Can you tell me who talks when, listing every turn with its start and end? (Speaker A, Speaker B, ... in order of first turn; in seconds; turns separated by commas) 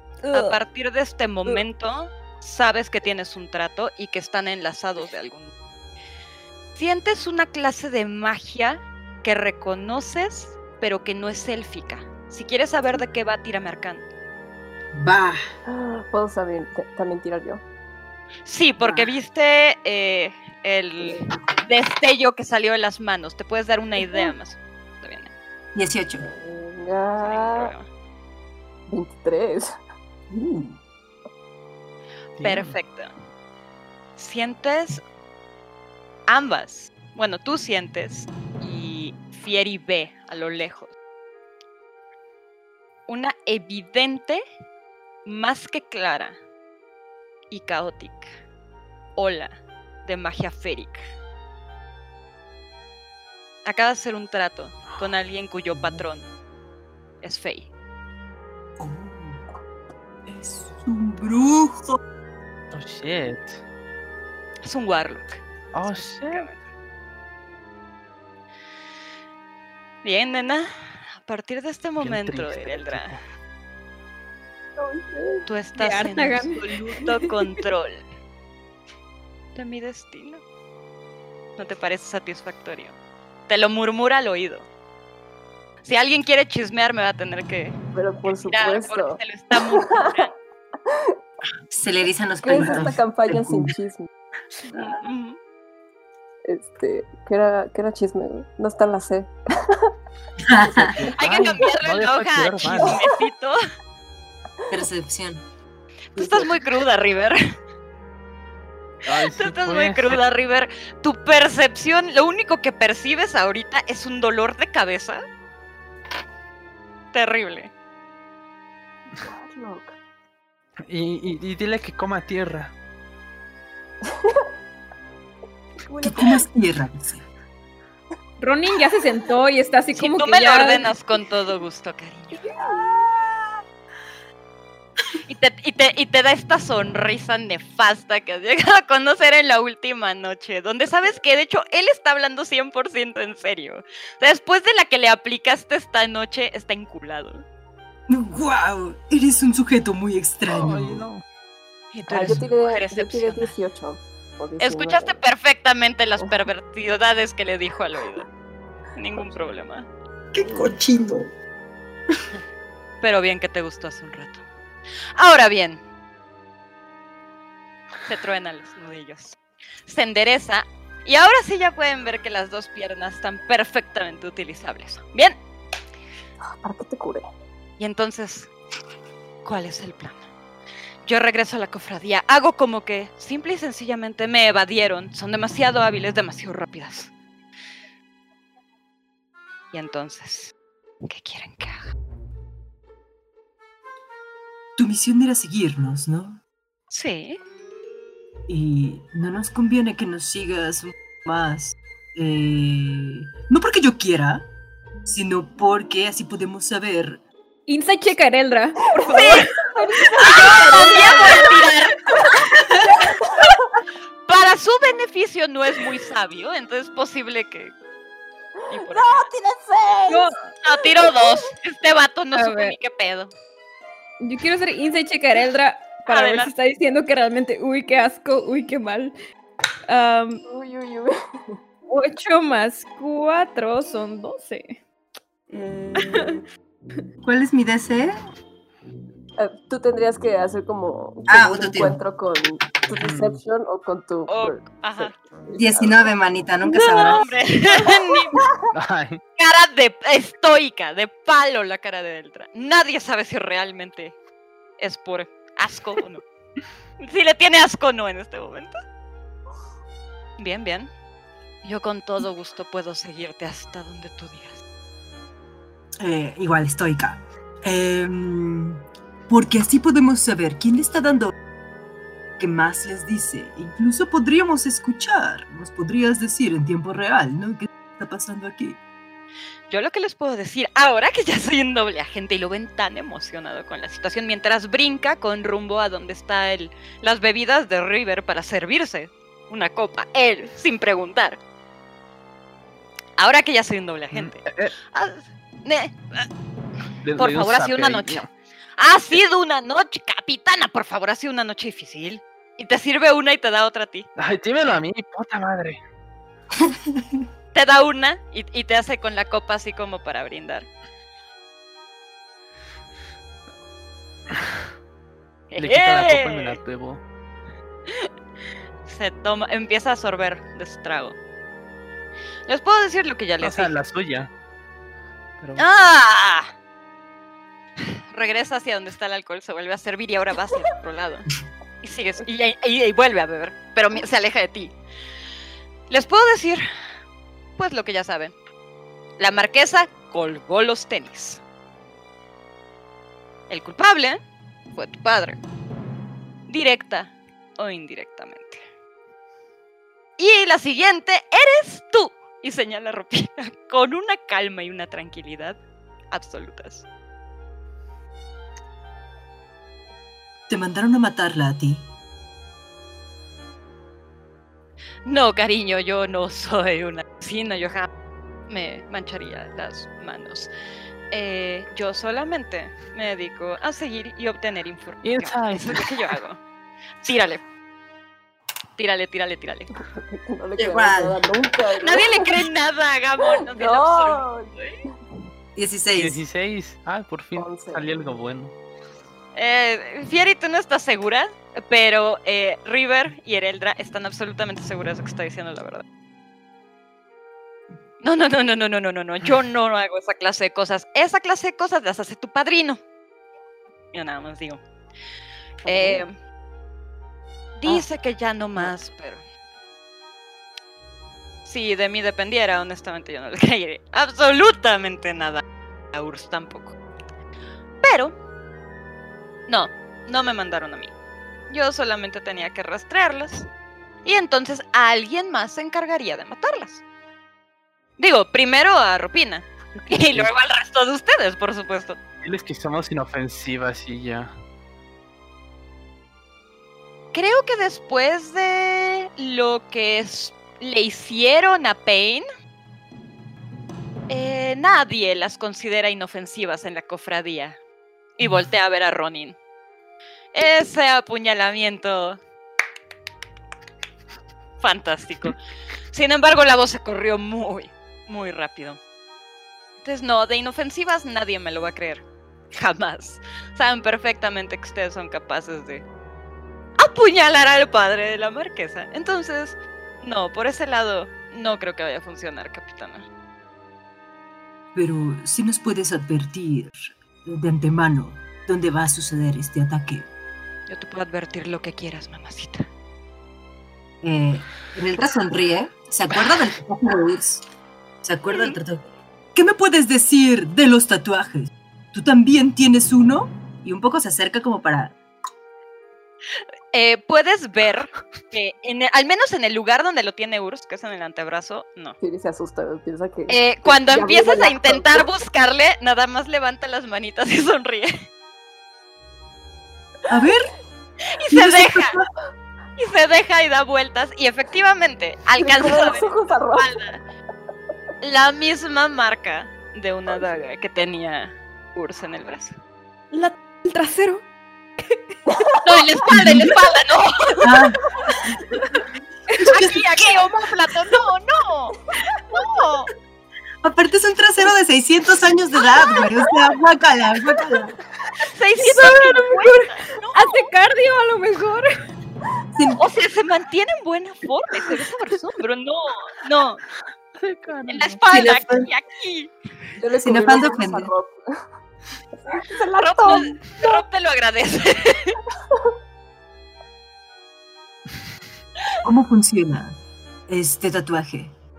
Speaker A: 0.2-0.6, Speaker B: 0.3-5.5, Speaker B: 6.7-14.0, Speaker C: 14.9-15.4, Speaker D: 15.7-17.6, Speaker B: 18.4-25.3, Speaker D: 18.8-19.1, Speaker D: 24.0-24.3, Speaker C: 25.7-26.3, Speaker D: 26.2-27.7, Speaker B: 27.2-27.9, Speaker D: 28.9-29.6, Speaker C: 30.3-30.8, Speaker E: 32.4-32.8, Speaker B: 32.4-33.1, Speaker B: 34.2-35.0, Speaker B: 36.3-40.9, Speaker B: 43.1-44.4, Speaker B: 45.2-46.4, Speaker B: 47.5-48.3, Speaker B: 49.1-51.0, Speaker B: 53.6-56.3, Speaker B: 57.2-57.7, Speaker C: 58.8-59.4, Speaker C: 60.2-62.0, Speaker E: 62.7-63.6, Speaker B: 64.6-66.6, Speaker E: 65.7-66.5, Speaker B: 70.0-73.2, Speaker E: 72.0-73.2, Speaker D: 74.8-75.5, Speaker B: 75.5-78.0, Speaker A: 75.8-76.7, Speaker B: 79.5-80.4, Speaker B: 81.6-82.9, Speaker B: 83.5-84.7, Speaker B: 85.8-87.8, Speaker D: 87.9-90.3, Speaker B: 88.3-90.3, Speaker C: 91.7-93.7, Speaker D: 92.4-94.1, Speaker B: 94.7-95.4, Speaker D: 96.4-99.9, Speaker C: 100.4-101.0, Speaker D: 100.7-101.5, Speaker E: 100.9-103.0, Speaker B: 101.1-103.6, Speaker D: 102.7-103.2, Speaker C: 104.7-105.4, Speaker B: 106.1-107.6, Speaker D: 106.2-106.5, Speaker E: 109.0-110.2, Speaker B: 109.1-115.2, Speaker B: 117.1-117.7, Speaker D: 119.2-120.0, Speaker E: 120.9-122.7, Speaker D: 124.0-124.5, Speaker D: 125.8-126.5, Speaker C: 126.0-127.2, Speaker A: 128.4-130.9, Speaker B: 129.9-132.4, Speaker D: 132.5-133.0, Speaker B: 135.3-147.4, Speaker C: 148.1-151.1, Speaker E: 150.4-151.2, Speaker B: 151.9-153.5, Speaker D: 152.1-155.2, Speaker C: 152.1-152.4, Speaker B: 154.6-158.2, Speaker D: 156.2-156.5, Speaker B: 158.9-159.9, Speaker D: 159.1-159.4, Speaker C: 160.3-161.3, Speaker B: 163.0-164.4, Speaker B: 165.2-165.8, Speaker B: 168.0-175.4, Speaker D: 176.5-177.3, Speaker B: 177.8-178.5, Speaker B: 179.4-180.3, Speaker B: 181.0-187.1, Speaker B: 189.7-190.5, Speaker B: 191.0-191.9, Speaker C: 194.8-196.4, Speaker B: 196.9-197.4, Speaker C: 198.5-204.5, Speaker C: 205.0-207.2, Speaker A: 207.7-211.2, Speaker D: 209.0-211.8, Speaker B: 210.2-212.0, Speaker A: 212.1-212.4, Speaker D: 213.0-213.6, Speaker B: 214.2-217.7, Speaker B: 218.7-219.3, Speaker D: 218.7-220.3, Speaker A: 220.1-220.4, Speaker B: 220.6-223.3, Speaker A: 222.3-222.8, Speaker A: 224.2-229.2, Speaker B: 226.1-226.5, Speaker A: 229.9-230.4, Speaker D: 230.4-231.1, Speaker A: 231.9-234.8, Speaker D: 235.5-236.0, Speaker A: 236.0-236.3, Speaker C: 237.2-238.2, Speaker D: 239.4-246.1, Speaker C: 241.3-242.0, Speaker E: 243.0-243.4, Speaker B: 244.3-245.1, Speaker C: 245.6-247.2, Speaker D: 246.7-248.5, Speaker B: 246.8-248.4, Speaker E: 248.7-249.2, Speaker B: 249.4-254.2, Speaker B: 254.8-256.2, Speaker B: 257.0-258.8, Speaker B: 260.4-260.9, Speaker B: 261.6-264.6, Speaker C: 266.0-271.3, Speaker C: 272.4-278.8, Speaker B: 279.7-291.4, Speaker B: 293.2-296.3, Speaker E: 294.1-294.7, Speaker E: 297.0-298.3, Speaker B: 297.2-298.2, Speaker B: 298.8-304.1, Speaker E: 304.2-305.8, Speaker C: 306.7-307.2, Speaker B: 307.5-310.7, Speaker B: 315.5-316.6, Speaker E: 315.6-317.0, Speaker B: 318.8-321.2, Speaker B: 322.5-323.8, Speaker E: 323.4-324.3, Speaker E: 325.4-325.6, Speaker B: 325.6-326.5, Speaker B: 327.8-331.3, Speaker B: 331.8-334.7, Speaker B: 335.9-336.6, Speaker B: 337.6-338.4, Speaker B: 339.2-341.4, Speaker B: 343.5-344.2, Speaker B: 344.7-345.4, Speaker B: 346.5-348.6, Speaker B: 350.2-355.6, Speaker B: 356.1-356.8, Speaker C: 360.5-361.9, Speaker B: 365.0-367.9, Speaker B: 368.5-370.5, Speaker B: 371.1-376.4, Speaker E: 375.0-376.1, Speaker B: 377.0-377.4, Speaker B: 378.8-379.8, Speaker D: 379.8-382.4, Speaker C: 380.6-381.2, Speaker B: 381.7-384.8, Speaker D: 383.2-384.5, Speaker C: 385.6-386.2, Speaker E: 385.9-388.5, Speaker D: 387.3-387.9, Speaker B: 389.3-395.8, Speaker B: 398.0-402.8, Speaker B: 403.9-404.6, Speaker D: 405.6-406.0, Speaker B: 405.6-406.2, Speaker B: 407.6-409.2, Speaker B: 411.4-416.8, Speaker B: 417.8-418.1, Speaker B: 419.5-420.9, Speaker B: 421.5-423.5, Speaker B: 424.0-426.8, Speaker B: 428.0-432.0, Speaker E: 429.8-430.3, Speaker E: 432.2-434.3, Speaker B: 437.1-442.2, Speaker B: 444.1-447.6, Speaker B: 448.2-449.4, Speaker B: 450.3-452.2, Speaker B: 454.6-455.4, Speaker B: 455.9-458.8, Speaker B: 459.8-465.8, Speaker B: 466.8-473.1, Speaker C: 474.7-480.1, Speaker B: 480.7-482.7, Speaker C: 484.0-487.4, Speaker C: 488.0-488.8, Speaker B: 488.3-488.6, Speaker C: 489.3-495.0, Speaker B: 496.7-502.0, Speaker D: 502.0-505.1, Speaker B: 503.3-508.1, Speaker C: 510.1-510.5, Speaker B: 511.1-512.0, Speaker C: 511.3-512.0, Speaker B: 512.8-517.0, Speaker D: 515.4-516.8, Speaker B: 518.0-522.5, Speaker D: 520.1-520.3, Speaker A: 523.1-524.2, Speaker A: 524.8-525.2, Speaker D: 525.3-525.8, Speaker B: 525.6-527.6, Speaker C: 526.1-526.5, Speaker C: 527.4-527.8, Speaker C: 529.5-530.1, Speaker B: 529.5-531.8, Speaker B: 532.3-532.9, Speaker C: 533.6-537.8, Speaker B: 538.2-540.5, Speaker A: 538.7-539.5, Speaker A: 540.1-541.7, Speaker C: 542.5-542.8, Speaker B: 542.8-546.6, Speaker E: 547.2-548.0, Speaker B: 547.7-549.3, Speaker C: 548.1-548.7, Speaker D: 549.8-551.2, Speaker C: 550.0-550.9, Speaker D: 552.1-553.7, Speaker B: 552.8-555.2, Speaker C: 558.8-561.3